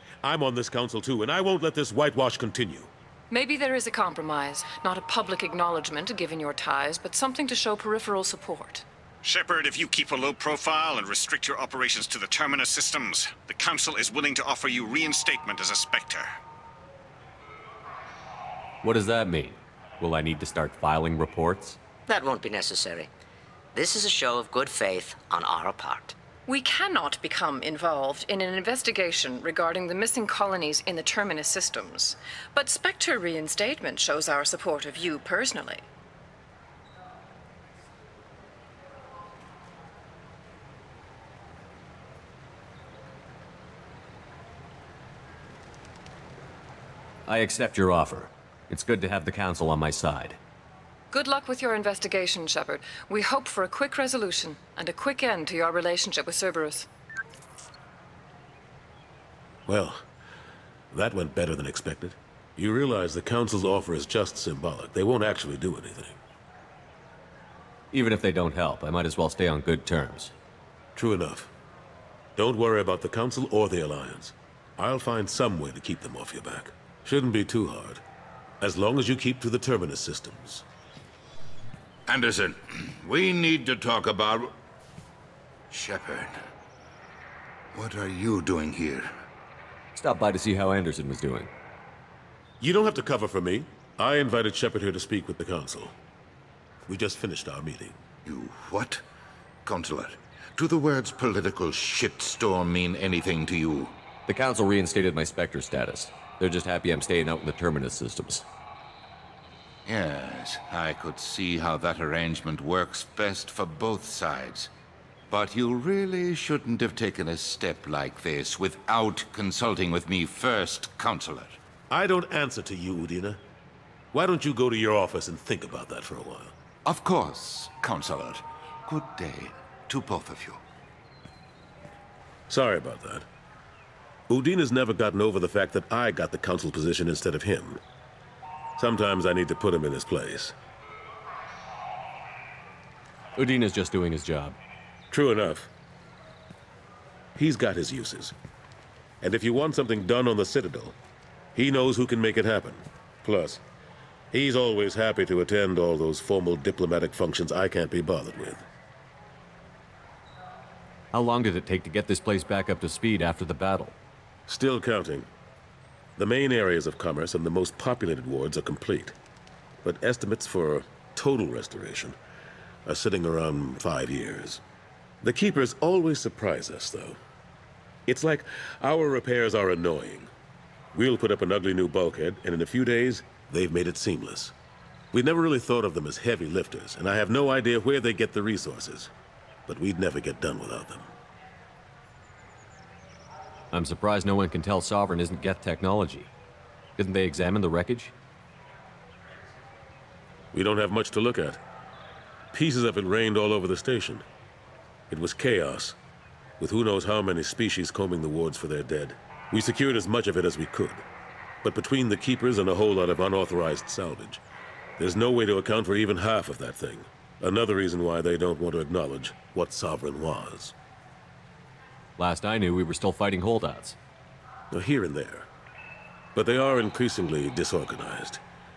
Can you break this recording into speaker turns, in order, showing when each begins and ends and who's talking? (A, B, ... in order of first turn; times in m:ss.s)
0:00.2-0:02.9 A
0:03.3-0:08.8 B
0:09.2-0:16.3 C
0:18.8-0:21.8 D
0:22.1-0:23.1 E
0:23.7-0:26.1 E
0:26.5-0:35.8 B
0:47.3-0:50.4 D
0:51.1-0:56.9 B
0:59.7-1:00.0 A
1:00.9-1:06.2 A
1:07.9-1:10.3 D
1:11.0-1:11.5 A
1:12.4-1:18.0 A
1:18.6-1:20.6 A
1:22.1-1:24.5 F
1:25.7-1:26.3 F
1:27.7-1:29.1 F
1:29.9-1:31.5 D
1:32.6-1:35.9 A
1:36.9-1:38.0 A
1:38.2-1:39.0 F
1:39.6-1:43.9 F
1:44.3-1:48.4 D
1:49.8-1:54.7 F
1:55.3-2:01.6 F
2:01.9-2:03.4 A
2:04.1-2:06.5 A
2:06.8-2:10.6 F
2:12.5-2:13.2 A
2:14.3-2:17.8 A
2:18.8-2:20.5 A
2:23.4-2:24.6 D
2:25.1-2:25.7 A
2:27.4-2:28.3 A
2:29.2-2:30.9 A
2:31.5-2:33.6 A
2:34.3-2:38.6 A
2:41.1-2:43.9 D
2:44.5-2:45.2 A
2:46.2-2:49.1 A
2:49.8-2:52.2 A
2:52.8-2:54.6 A
2:55.2-2:57.2 A
2:58.1-3:00.3 A
3:00.9-3:04.5 A
3:05.1-3:09.1 A
3:09.7-3:11.1 A
3:13.7-3:16.3 D
3:17.0-3:18.1 D
3:20.5-3:21.6 A
3:22.5-3:24.2 A
3:25.1-3:26.0 A
3:26.6-3:31.0 A
3:31.6-3:34.4 A
3:35.0-3:40.7 A
3:42.2-3:44.0 D
3:44.7-3:45.5 A
3:46.3-3:48.4 A